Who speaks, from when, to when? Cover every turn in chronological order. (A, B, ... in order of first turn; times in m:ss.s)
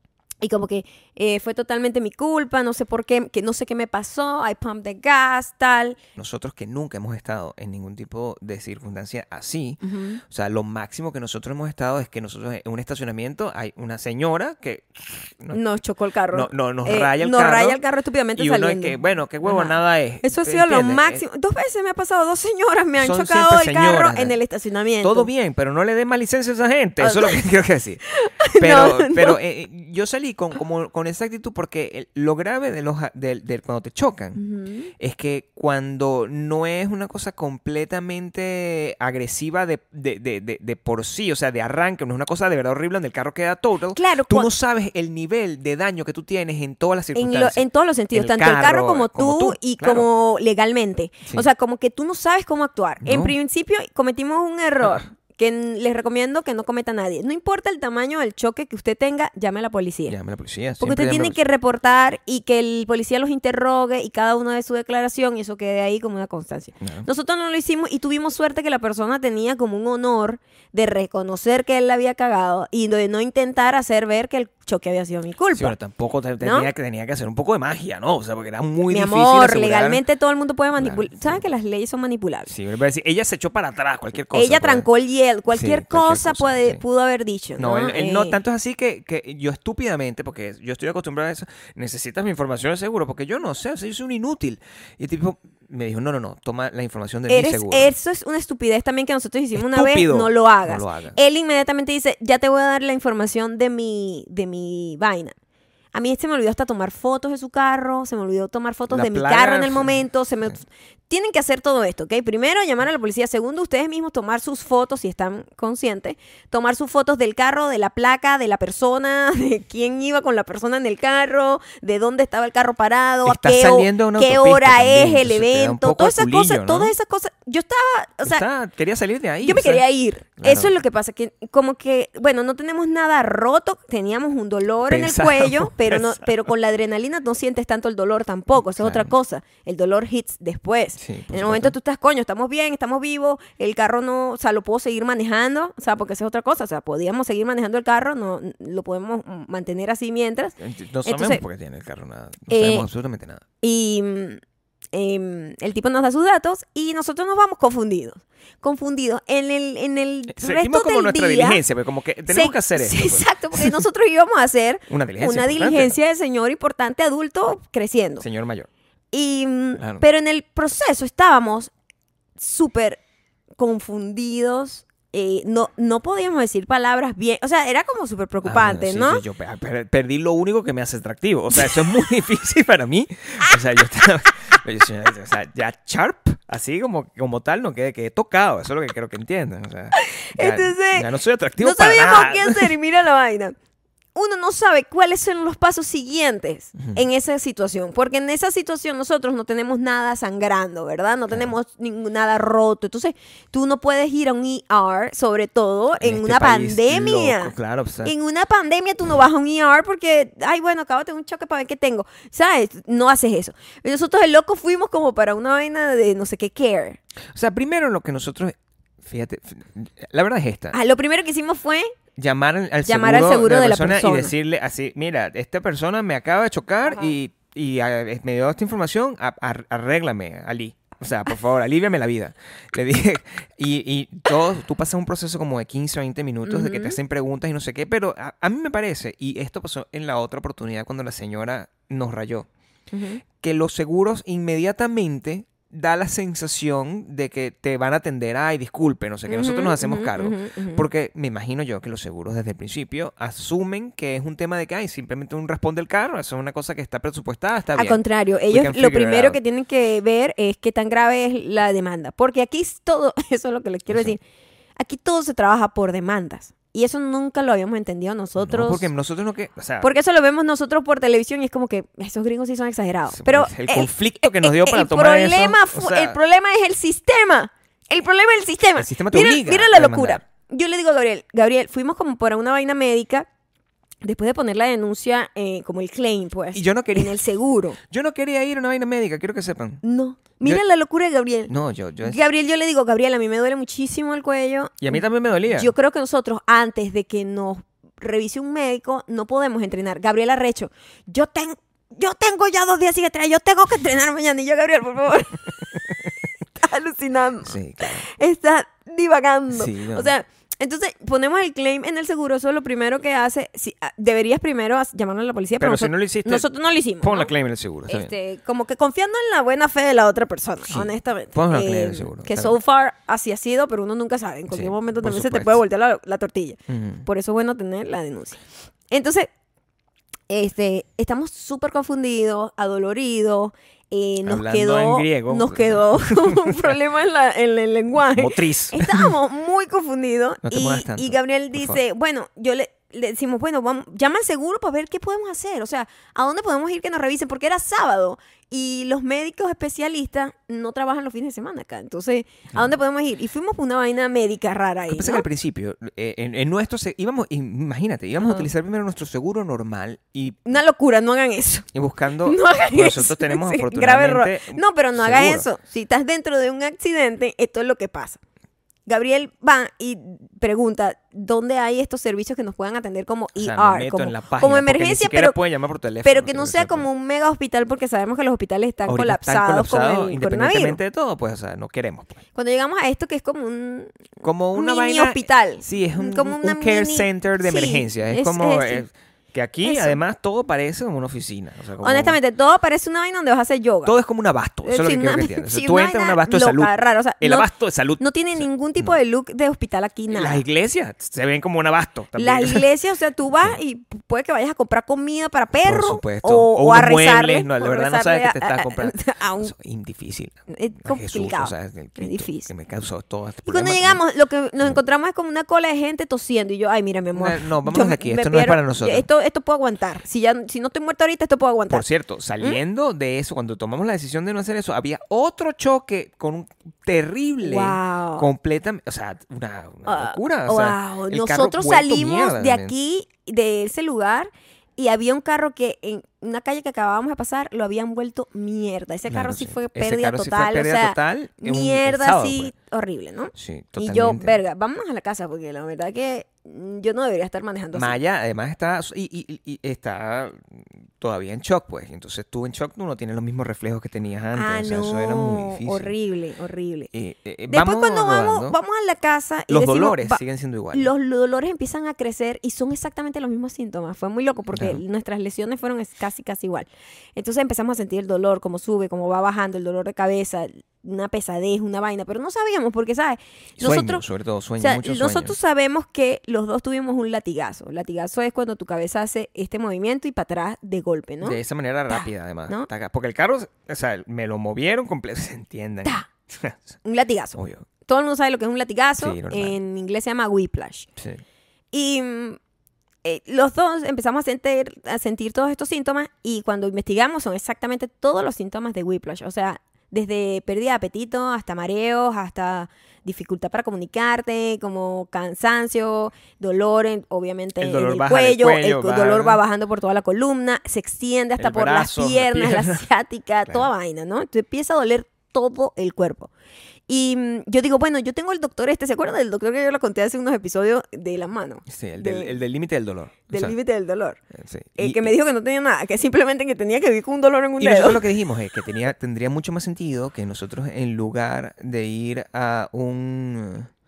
0:00.4-0:06.0 A
0:06.2-0:15.6 B
0:09.8-0:10.2 A
0:15.5-0:25.3 A
0:16.3-0:17.8 B
0:18.4-0:21.2 B
0:23.0-0:24.3 B
0:25.0-0:34.4 B
0:27.0-0:27.4 A
0:28.1-0:29.4 A
0:34.3-0:34.9 A
0:35.0-0:50.1 B
0:43.9-0:44.5 A
0:47.1-1:00.2 A
0:53.0-0:53.3 B
1:00.1-1:01.4 B
1:00.8-1:15.7 A
1:06.8-1:07.1 B
1:15.5-1:20.0 B
1:16.4-1:16.7 A
1:18.9-1:22.5 A
1:20.8-1:21.4 B
1:22.5-1:24.8 B
1:24.3-1:28.4 A
1:25.5-1:26.8 B
1:27.6-1:37.9 B
1:37.3-1:45.3 A
1:39.5-1:41.2 B
1:45.9-2:08.4 A
1:48.9-1:50.0 B
2:03.2-2:06.9 B
2:08.2-2:09.8 B
2:09.4-2:31.4 A
2:10.4-2:10.7 B
2:14.9-2:16.3 B
2:18.8-2:19.1 B
2:21.0-2:21.7 B
2:30.6-2:33.4 B
2:32.5-2:32.9 A
2:33.6-2:34.4 A
2:34.9-2:41.6 A
2:40.3-2:43.8 B
2:42.3-2:48.2 A
2:44.9-2:45.9 B
2:48.2-2:48.7 B
2:49.1-2:51.7 A
2:49.8-2:50.0 B
2:52.4-2:53.0 A
2:53.6-2:59.2 A
2:58.4-3:12.8 B
3:09.9-3:11.1 A
3:11.6-3:13.6 A
3:14.1-3:27.5 A
3:26.0-3:28.1 B
3:28.0-3:37.0 A
3:37.3-3:40.8 B
3:40.7-3:41.9 A
3:42.2-4:02.5 B
3:42.8-3:44.3 A
3:46.8-3:47.1 A
3:56.4-3:57.0 A
4:02.9-4:03.2 A
4:03.4-4:19.4 B
4:09.3-4:10.8 A
4:17.7-4:24.2 A
4:23.9-4:24.1 B
4:24.8-4:28.9 A
4:28.4-4:29.9 B
4:29.8-4:43.3 A
4:33.1-4:36.2 B
4:38.8-4:40.2 B
4:44.0-4:47.8 A
4:46.5-4:47.2 B
4:47.8-4:49.8 B
4:49.8-4:51.5 A
4:51.5-4:52.2 B
4:52.0-5:05.7 A
4:54.8-4:55.7 B
5:06.5-5:17.3 A
5:07.4-5:08.1 B
5:09.5-5:10.1 B
5:15.6-5:16.4 B
5:17.0-5:18.1 B
5:17.9-5:29.3 A
5:20.7-5:22.5 B
5:24.5-5:25.6 B
5:26.7-5:27.1 B
5:30.3-5:55.2 A
5:34.2-5:36.8 B
5:38.1-5:39.1 B
5:40.4-5:41.8 B
5:54.9-6:00.5 B
5:58.2-5:58.5 A
6:00.4-6:01.7 A
6:01.7-6:05.5 B
6:02.2-6:08.2 A
6:08.9-6:15.4 A
6:13.4-6:16.8 B
6:16.0-6:20.8 A
6:18.9-6:22.2 B
6:22.3-6:28.8 A
6:24.2-6:32.2 B
6:29.6-6:30.0 A
6:31.8-6:33.9 A
6:33.8-6:39.0 B
6:34.6-6:37.5 A
6:38.0-6:40.4 A
6:40.1-6:42.6 B
6:42.2-6:49.5 A
6:45.6-6:54.0 B
6:50.5-6:52.5 A
6:53.4-7:01.8 A
6:57.1-6:59.0 B
7:01.7-7:12.7 B
7:07.4-7:08.3 A
7:09.8-7:28.0 A
7:19.1-7:22.5 B
7:23.3-7:24.4 B
7:27.7-7:35.9 B
7:34.3-7:36.9 A
7:36.9-7:38.6 B
7:37.5-7:40.2 A
7:39.5-7:40.9 B
7:40.7-7:54.0 A
7:44.5-7:44.8 B
7:53.6-7:55.3 B
7:54.6-8:02.7 A
8:01.2-8:06.7 B
8:06.8-8:10.9 A
8:07.3-8:07.7 B
8:09.0-8:09.6 B
8:11.7-8:12.4 A
8:13.0-8:36.3 A
8:27.6-8:29.4 B
8:31.4-8:32.8 B
8:36.9-8:42.4 A
8:41.7-8:43.5 B
8:43.3-8:44.2 A
8:44.3-8:45.1 B
8:44.8-8:48.0 A
8:47.6-8:53.7 B